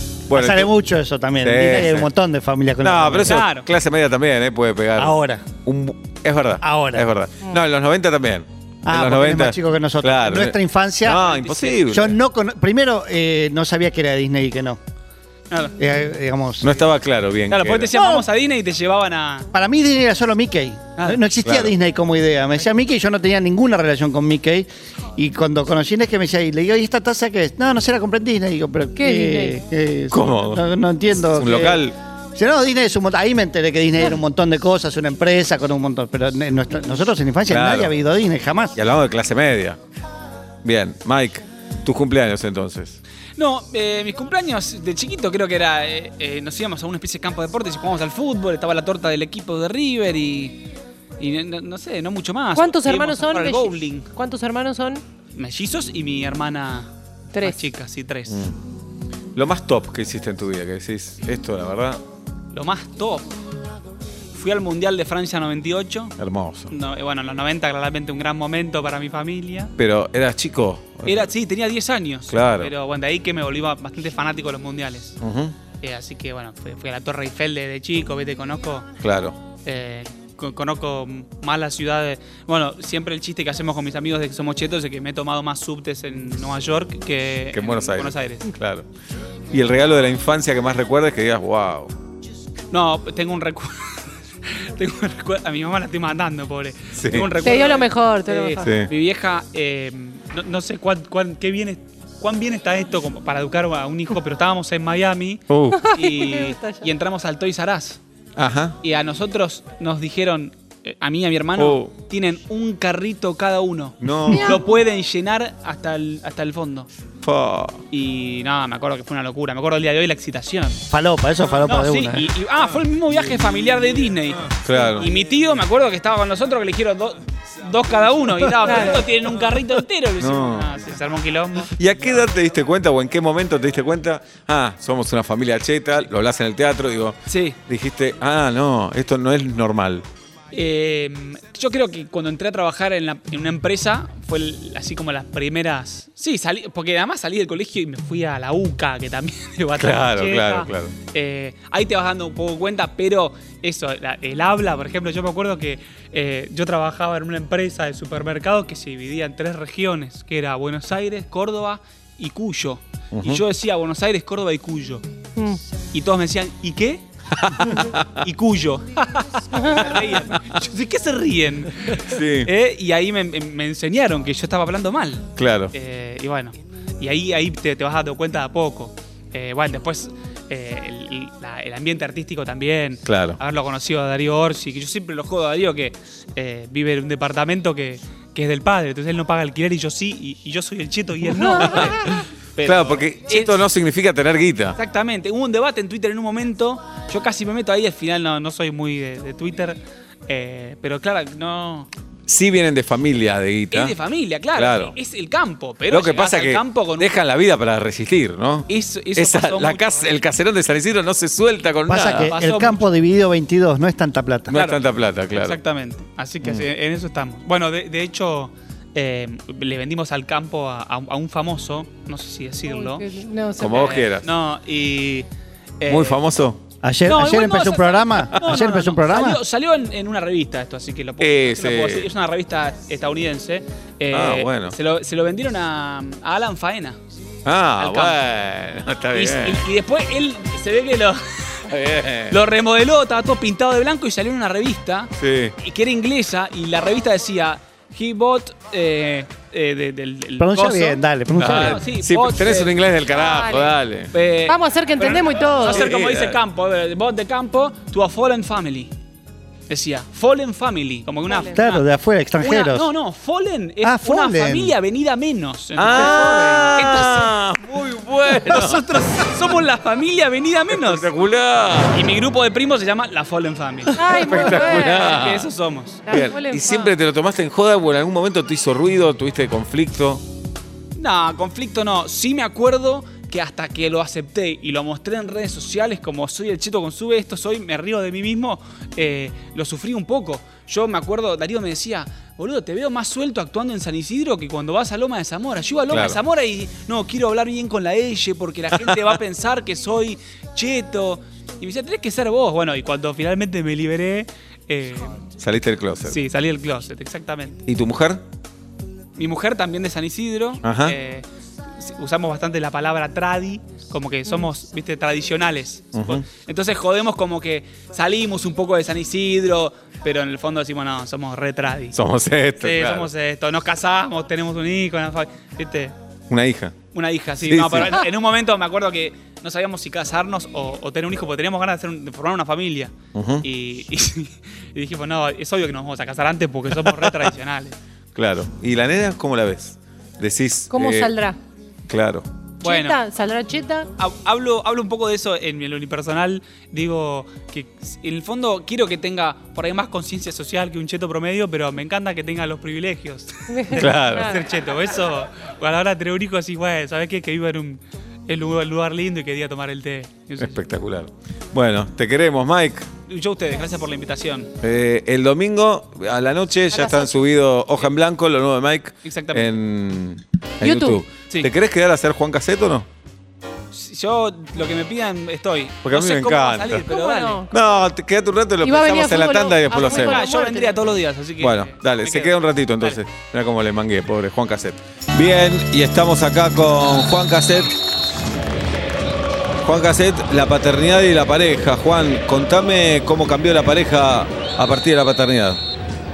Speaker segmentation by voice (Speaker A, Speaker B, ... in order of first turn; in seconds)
Speaker A: 0.3-0.7, 1.4-2.1, 2.8-12.2, 16.6-17.9, 21.4-21.7, 30.1-30.6, 31.3-31.9, 37.5-37.9, 38.8-39.8, 40.6-43.0, 58.3-58.5, 59.4-62.0, 66.2-66.7, 69.8-71.3, 72.3-72.7, 75.2-75.6, 79.0-79.4, 87.5-88.9, 89.5-91.9, 97.0-97.3, 98.6-98.9, 105.5-105.8, 108.4-108.8, 111.6-111.9, 114.0-114.6, 117.2-117.8, 124.6-125.1, 130.2-130.7, 131.8-140.1, 149.8-150.9, 163.1-163.4, 167.4-168.2, 171.9-172.5, 175.4-175.7, 183.1-183.4, 191.5-194.8, 202.3-203.9, 204.6-204.9, 205.9-212.3, 214.5-215.6, 223.6-224.3, 225.9-226.6, 231.2-232.1, 234.1-234.8, 237.4-239.6, 241.7-242.4, 245.2-245.5, 251.3-254.1, 255.7-256.4, 265.8-269.3, 270.7-272.0, 273.9-275.5, 276.1-280.2, 295.9-296.2, 305.4-306.2, 307.7-308.2, 310.6-311.0, 315.9-316.2, 321.9-323.1, 326.3-326.8, 327.4-328.1, 333.1-333.4, 336.8-337.1, 338.1-341.1, 341.9-342.3, 353.7-354.4, 360.4-362.9, 364.6-372.9, 375.9-376.9, 377.5-380.3, 381.4-387.7, 389.6-395.6
Speaker B: 0.3-3.4, 5.0-5.5, 6.6-7.1, 8.8-11.2, 11.8-14.8, 15.8-16.8, 17.9-18.2, 19.5-38.8, 120.9-122.3, 211.9-214.6, 226.8-229.4, 250.4-251.8, 261.4-262.9, 263.8-264.8
Speaker C: 3.2-3.7, 11.1-12.0, 15.5-15.8, 17.5-19.5, 43.4-50.6, 51.2-54.1, 55.4-58.4, 62.5-63.3, 64.3-66.2, 66.7-69.7, 71.1-75.2, 75.8-78.9, 79.7-88.5, 92.7-108.0, 108.8-116.9, 117.9-120.8, 121.6-131.7, 137.3-137.6, 140.5-165.0, 165.9-167.0, 167.6-193.6, 194.8-199.8, 200.3-201.9, 203.7-207.2, 208.7-210.2, 212.2-212.9, 214.5-214.8, 215.3-223.1, 223.7-225.3, 225.8-226.2, 227.1-237.0, 237.8-238.2, 239.1-241.7, 242.3-252.8, 254.1-258.9, 259.7-261.8, 262.4-267.3, 268.3-271.1, 271.9-276.0, 281.0-305.2, 306.1-307.6, 309.2-311.2, 311.8-322.0, 322.6-325.9, 326.9-337.8, 342.6-343.0, 344.0-360.6, 363.1-364.5, 369.1-369.5, 373.7-377.5, 379.8-383.0
Speaker D: 29.0-29.6, 52.5-55.0, 57.3-57.6, 97.4-98.7, 105.7-106.9, 114.3-114.6, 169.5-169.8, 222.7-224.0, 253.1-253.8, 254.5-255.9, 274.0-275.3, 276.1-276.9, 340.7-341.4, 342.6-343.9, 353.5-354.4, 366.7-367.2, 370.6-371.0, 376.9-377.5, 378.6-380.7